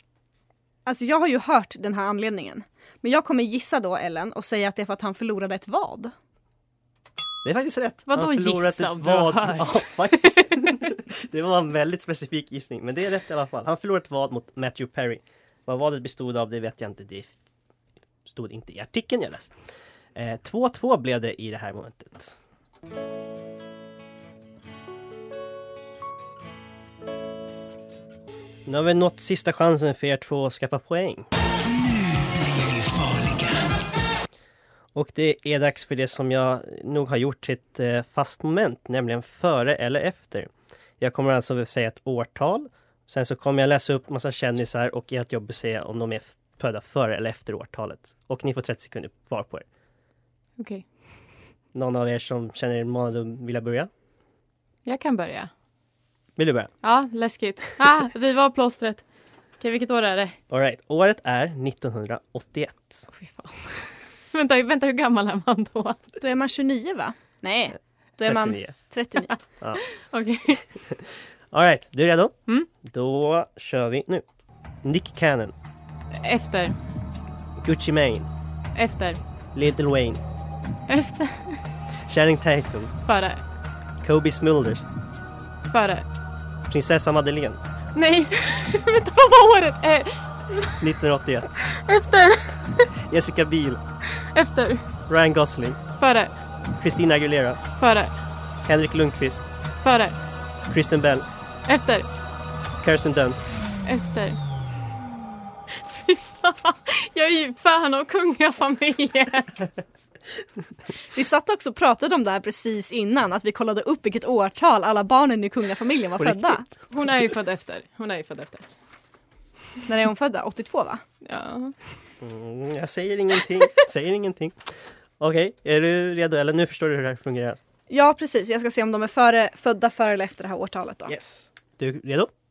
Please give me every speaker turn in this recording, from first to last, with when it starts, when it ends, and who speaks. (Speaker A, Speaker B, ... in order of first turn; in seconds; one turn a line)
Speaker A: 0.9-6.1
Speaker B: 7.4-17.3
Speaker C: 8.1-10.6
Speaker B: 18.2-19.6
Speaker B: 20.1-22.4
Speaker B: 28.7-31.3
Speaker B: 33.1-33.4
Speaker B: 35.0-49.6
Speaker C: 50.6-50.9
Speaker B: 51.7-53.9
Speaker C: 54.9-55.5
Speaker B: 56.4-56.7
Speaker C: 56.8-59.0
Speaker C: 59.6-60.4
Speaker B: 60.5-63.1
Speaker C: 63.1-66.0
Speaker A: 66.2-69.3
Speaker B: 68.2-68.8
Speaker C: 69.9-70.6
Speaker B: 70.9-74.2
Speaker B: 74.8-75.5
Speaker C: 76.1-76.8
Speaker B: 77.6-78.3
Speaker C: 78.8-79.2
Speaker B: 79.5-80.2
Speaker C: 80.9-81.6
Speaker B: 82.1-82.9
Speaker C: 83.0-83.4
Speaker B: 84.0-84.9
Speaker C: 85.7-86.1
Speaker B: 86.7-87.6
Speaker C: 88.0-90.8
Speaker B: 90.8-91.6
Speaker C: 91.7-92.9
Speaker B: 93.1-93.8
Speaker C: 94.2-94.8
Speaker B: 95.1-95.8
Speaker C: 96.0-96.3
Speaker B: 96.8-97.6
Speaker C: 97.8-98.1
Speaker B: 98.7-99.5
Speaker C: 99.8-100.2
Speaker B: 100.7-101.3
Speaker C: 101.7-102.1
Speaker B: 102.8-103.5
Speaker C: 103.8-104.4
Speaker C: 105.8-109.6
Speaker A: 111.2-116.6
Speaker B: 116.2-116.6
Speaker C: 116.9-118.6
Speaker A: 119.9-121.0
Speaker C: 121.2-121.8
Speaker B: 122.2-127.6
Speaker A: 127.9-131.1
Speaker B: 131.1-132.3